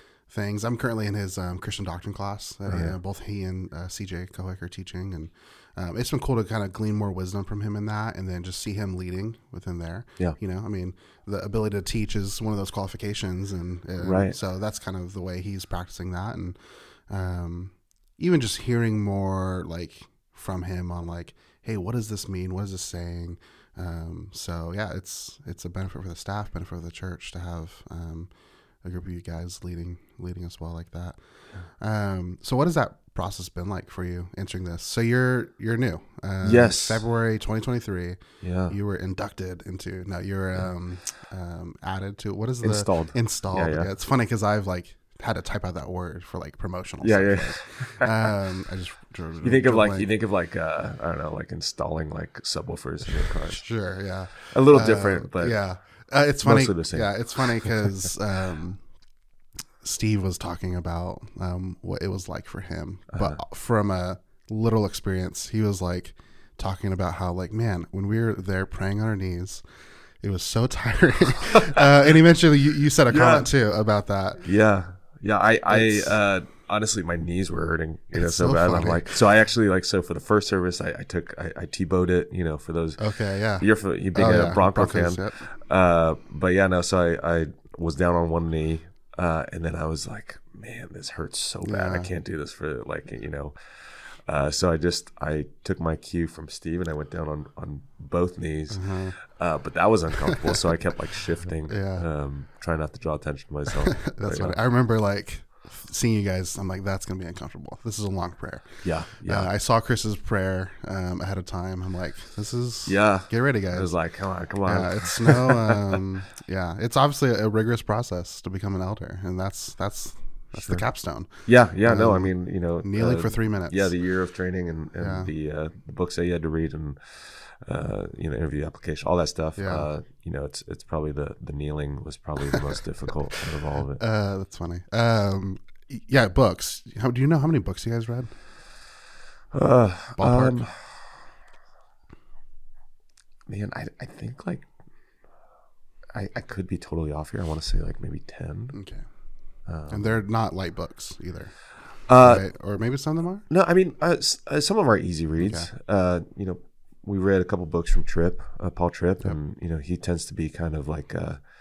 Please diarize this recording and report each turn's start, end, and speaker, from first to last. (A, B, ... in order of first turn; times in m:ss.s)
0:00.3-0:28.3 A
0:02.7-0:03.0 B
0:14.0-0:14.4 B
0:28.8-0:50.1 A
0:36.4-0:37.0 B
0:38.4-0:38.8 B
0:42.6-0:43.9 B
0:47.0-0:48.3 B
0:49.4-0:53.8 B
0:53.1-0:58.8 A
0:54.4-0:55.6 B
0:56.4-0:57.9 B
0:59.8-1:09.6 A
1:03.1-1:03.4 B
1:10.2-1:14.4 A
1:13.1-1:13.5 B
1:14.4-1:44.6 B
1:15.7-1:16.2 A
1:18.1-1:19.1 A
1:23.0-1:25.5 A
1:31.6-1:32.1 A
1:38.7-1:39.2 A
1:40.2-1:40.6 A
1:41.7-1:42.1 A
1:43.9-1:53.9 A
1:48.8-1:49.5 B
1:52.9-1:56.0 B
1:54.6-2:03.9 A
2:00.6-2:00.8 B
2:01.4-2:14.0 B
2:05.0-2:05.3 A
2:09.6-2:09.9 A
2:14.0-2:18.3 A
2:19.5-2:21.1 B
2:20.2-2:20.6 A
2:23.5-2:24.7 B
2:26.1-2:28.8 B
2:28.7-2:29.1 A
2:29.7-2:30.2 B
2:29.9-2:33.4 A
2:32.1-2:32.4 B
2:33.5-2:41.4 B
2:35.4-2:35.7 A